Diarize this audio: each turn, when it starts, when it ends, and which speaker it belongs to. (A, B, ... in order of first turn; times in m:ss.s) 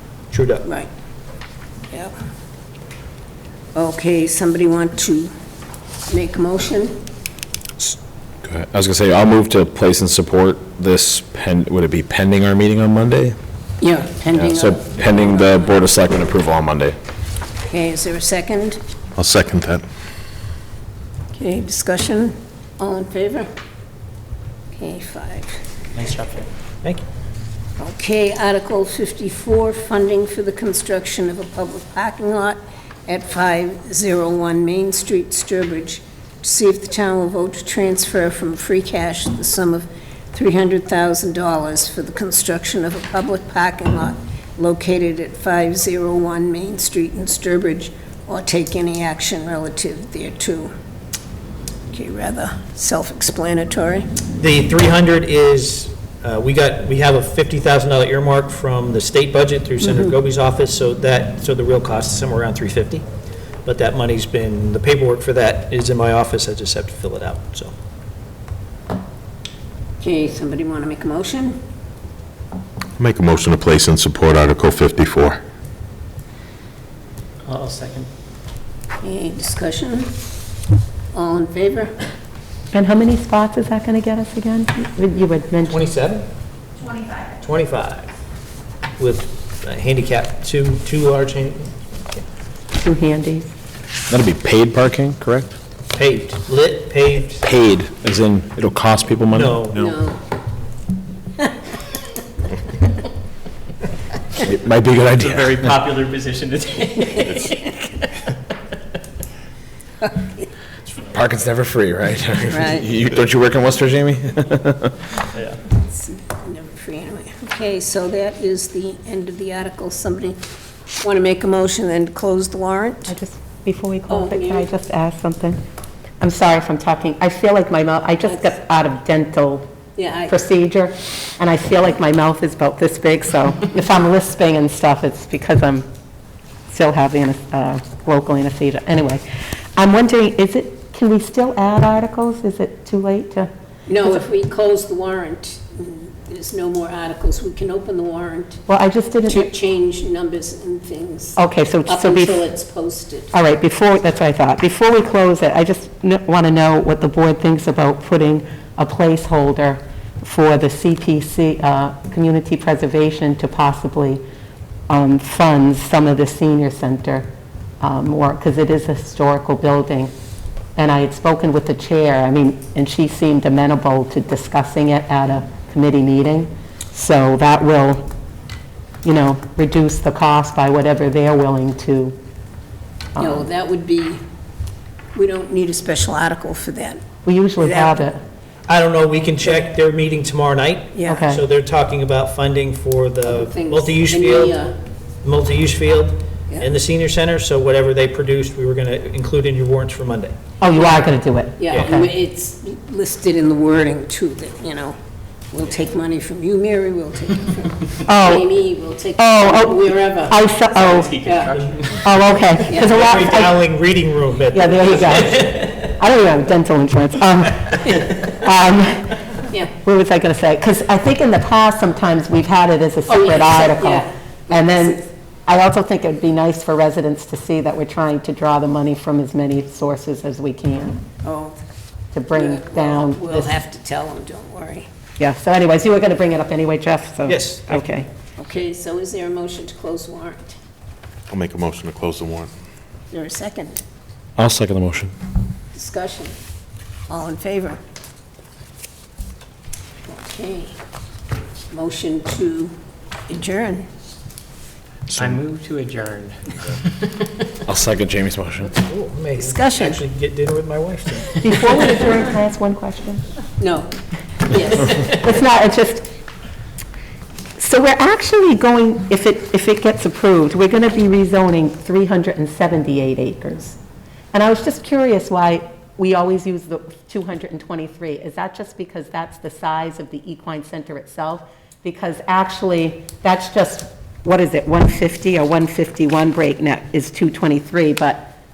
0:00.3-0:00.7 A
0:03.8-0:05.3 B
0:06.1-0:07.0 B
0:07.8-0:13.4 C
0:13.8-0:15.6 B
0:14.4-0:17.0 C
0:17.7-0:18.8 B
0:19.2-0:19.8 D
0:21.3-0:23.5 B
0:24.7-0:25.6 B
0:27.8-0:50.7 B
0:51.9-0:54.1 B
0:54.4-1:03.0 A
1:03.7-1:07.7 A
1:10.0-1:11.6 B
1:13.0-1:15.4 D
1:17.5-1:18.1 A
1:19.0-1:20.1 B
1:21.1-1:21.9 B
1:22.7-1:25.9 E
1:25.7-1:26.2 A
1:27.4-1:28.1 A
1:29.0-1:31.7 A
1:32.8-1:33.5 E
1:34.1-1:35.6 C
1:35.9-1:37.5 A
1:37.4-1:39.6 C
1:39.3-1:39.9 A
1:39.7-1:40.2 B
1:44.4-1:45.8 C
1:45.2-1:47.2 F
1:46.8-1:48.1 B
1:50.0-1:50.4 B
1:51.1-1:55.2 C
1:52.5-1:52.9 B
1:55.7-2:00.4 B
2:01.0-2:03.2 B
2:03.1-2:05.6 E
2:04.1-2:04.7 B
2:06.2-2:09.7 E
2:10.0-2:10.4 B
2:10.3-2:15.9 E
2:16.7-2:19.2 E
2:19.8-2:23.5 E
2:23.9-2:28.6 B
2:28.7-2:29.5 E
2:29.2-2:33.3 B
2:31.4-2:32.5 E
2:33.3-2:44.2 E
2:44.9-2:47.3 E
2:47.8-2:50.1 E
2:50.8-2:58.1 E
2:59.0-3:02.2 E
3:03.2-3:03.5 E
3:03.2-3:04.2 B
3:05.2-3:07.0 B
3:07.2-3:08.2 E
3:07.6-3:08.0 B
3:08.7-3:14.6 A
3:11.0-3:11.3 B
3:11.1-3:11.4 E
3:13.2-3:14.8 B
3:15.2-3:20.3 A
3:20.6-3:21.6 E
3:21.6-3:25.0 B
3:21.7-3:22.1 A
3:25.5-3:30.5 B
3:28.0-3:28.5 E
3:29.2-3:31.3 E
3:30.8-3:32.0 F
3:31.1-3:31.6 B
3:31.5-3:31.9 A
3:32.0-3:33.6 E
3:32.6-3:33.1 B
3:32.8-3:35.4 A
3:34.5-3:51.0 E
3:37.8-3:38.4 B
3:43.1-3:45.0 B
3:51.2-3:51.6 B
3:52.1-3:53.6 E
3:52.3-3:54.9 B
3:55.2-3:58.1 E
3:57.3-3:57.9 A
3:58.4-4:00.6 B
4:01.3-4:02.5 D
4:03.1-4:03.8 B
4:04.4-4:05.1 C
4:05.7-4:06.3 B
4:07.1-4:07.8 B
4:10.1-4:10.7 B
4:11.7-4:12.7 B
4:13.3-4:13.8 B
4:15.1-4:15.4 C
4:15.2-4:16.4 F
4:17.6-4:18.7 C
4:18.7-4:21.4 A
4:19.4-4:20.0 B
4:21.4-4:23.2 E
4:23.6-4:23.9 B
4:24.4-4:25.3 B
4:25.0-4:26.1 E
4:27.6-4:33.8 E
4:34.3-4:48.3 E